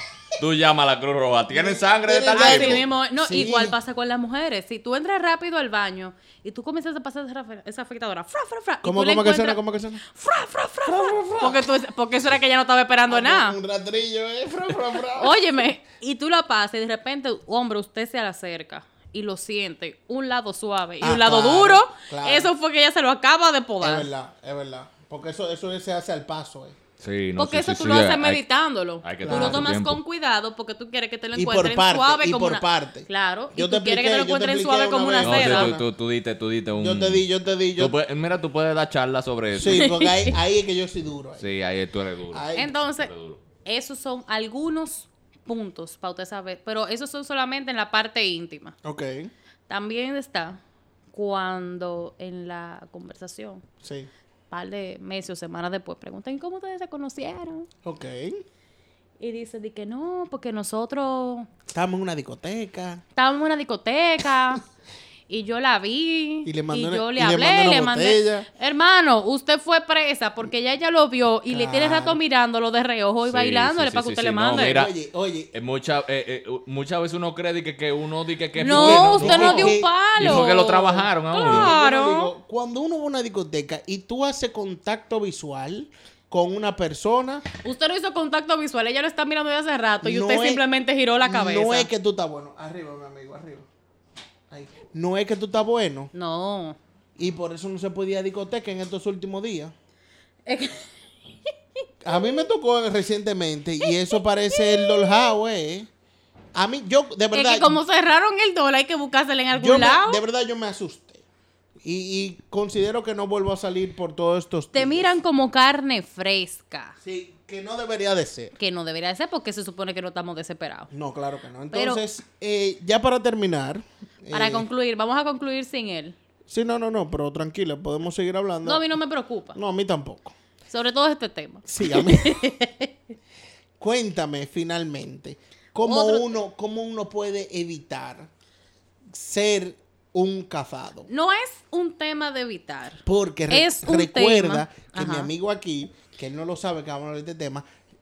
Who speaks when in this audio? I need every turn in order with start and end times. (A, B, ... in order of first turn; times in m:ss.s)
0:00.4-0:02.8 A
0:01.5-0:03.8 B
0:02.3-0:13.6 C
0:08.8-0:10.0 B
0:10.8-0:11.6 B
0:13.1-0:15.4 B
0:15.2-0:24.1 C
0:21.0-0:22.5 B
0:23.8-0:26.8 B
0:27.0-0:28.4 A
0:27.4-0:35.8 C
0:29.0-0:30.0 A
0:29.2-0:29.6 B
0:31.3-0:35.8 B
0:35.2-0:37.2 A
0:36.8-0:38.0 B
0:37.8-0:39.9 A
0:39.5-0:41.4 B
0:39.7-0:40.3 C
0:41.4-0:43.4 A
0:42.3-0:42.7 B
0:42.5-0:43.1 C
0:43.6-0:48.7 C
0:48.8-0:49.3 B
0:49.7-0:50.6 C
0:51.1-0:53.6 C
0:53.8-0:54.1 B
0:54.5-0:57.7 C
0:57.8-0:58.4 B
0:59.2-1:01.5 C
1:01.7-1:03.0 B
1:03.2-1:04.6 C
1:05.3-1:14.8 C
1:06.4-1:08.5 B
1:11.5-1:12.2 B
1:13.2-1:14.9 A
1:14.5-1:15.5 B
1:15.5-1:21.7 A
1:18.6-1:22.3 C
1:18.6-1:20.6 B
1:21.4-1:27.4 B
1:27.6-1:31.9 C
1:30.0-1:30.6 B
1:31.2-1:33.7 B
1:34.5-1:36.1 B
1:36.1-1:36.8 C
1:37.2-1:39.7 B
1:40.4-1:40.8 C
1:42.0-1:45.9 B
1:44.5-1:45.1 C
1:46.5-1:47.8 B
1:47.3-1:50.2 C
1:49.5-1:51.2 B
1:51.8-1:55.1 B
1:54.7-1:57.0 C
1:57.0-1:58.5 B
1:58.6-2:00.9 C
2:00.9-2:04.7 B
2:01.7-2:02.0 C
2:04.3-2:06.1 C
2:06.5-2:08.9 B
2:08.6-2:09.6 C
2:09.5-2:10.3 B
2:10.7-2:12.9 C
2:11.7-2:12.4 B
2:13.8-2:18.3 B
2:15.8-2:16.3 C
2:19.1-2:21.1 B
2:21.1-2:25.3 C
2:23.0-2:27.6 B